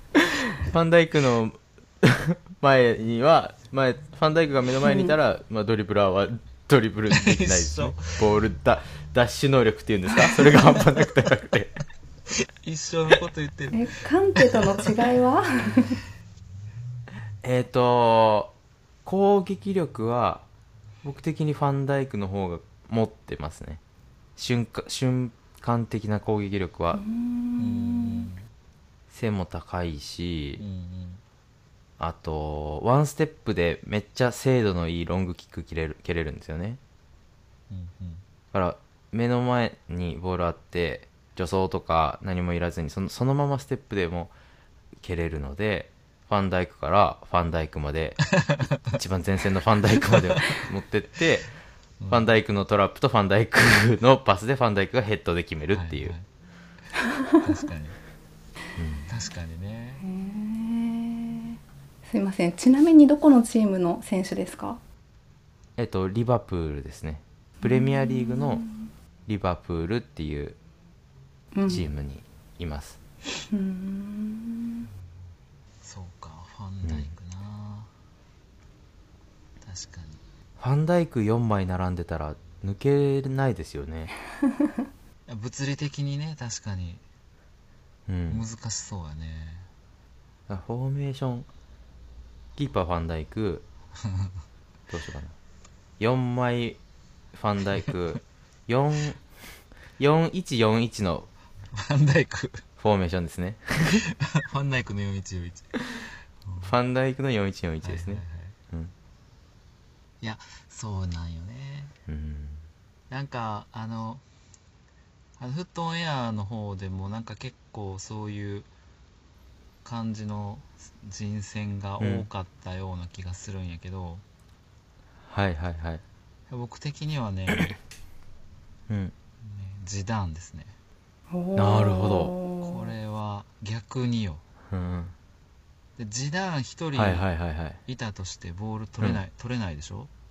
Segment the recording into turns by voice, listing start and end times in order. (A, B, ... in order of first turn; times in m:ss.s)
0:00.2-0:11.8 A
0:04.8-0:05.1 B
0:07.1-0:08.2 C
0:10.2-0:11.0 C
0:12.4-0:14.9 C
0:13.7-0:16.0 B
0:17.4-0:18.5 A
0:19.0-0:20.4 A
0:21.0-0:23.8 A
0:24.4-0:27.0 A
0:26.9-0:28.3 B
0:27.6-0:28.4 C
0:29.1-0:30.6 A
0:30.6-0:31.2 C
0:32.0-0:36.8 A
0:37.7-0:38.2 C
0:38.5-0:44.3 A
0:45.0-0:48.3 A
0:48.8-0:51.5 A
0:50.1-0:50.6 C
0:52.0-0:52.3 C
0:52.1-0:56.1 A
0:55.7-0:56.2 C
0:57.4-0:58.0 C
0:58.8-0:59.1 A
0:59.1-1:00.0 C
1:00.0-1:04.8 B
1:05.8-1:08.6 A
1:07.6-1:08.8 B
1:09.3-1:10.6 A
1:11.5-1:11.8 B
1:11.7-1:13.0 A
1:13.5-1:14.9 B
1:15.8-1:17.9 C
1:16.8-1:17.1 A
1:19.6-1:20.2 C
1:20.6-1:24.1 A
1:25.3-1:27.0 C
1:28.1-1:28.4 A
1:28.3-1:29.7 C
1:30.5-1:31.5 A
1:32.6-1:33.6 A
1:34.9-1:35.3 A
1:36.0-1:36.8 A
1:37.3-1:39.2 A
1:40.0-1:41.3 A
1:41.7-1:42.6 C
1:42.8-1:44.0 A
1:43.9-1:46.7 C
1:46.6-1:48.9 A
1:47.8-1:48.6 C
1:50.2-1:51.9 C
1:52.1-1:52.6 A
1:53.1-1:54.2 C
1:55.4-1:58.7 C
1:59.8-2:04.2 C
2:02.0-2:02.3 A
2:05.2-2:06.0 A
2:06.5-2:07.8 C
2:08.9-2:09.1 A
2:09.4-2:10.7 C
2:11.3-2:12.9 B
2:11.6-2:12.3 A
2:12.6-2:14.4 C
2:14.7-2:15.1 A
2:16.0-2:17.2 C
2:16.9-2:17.8 A
2:17.8-2:20.1 C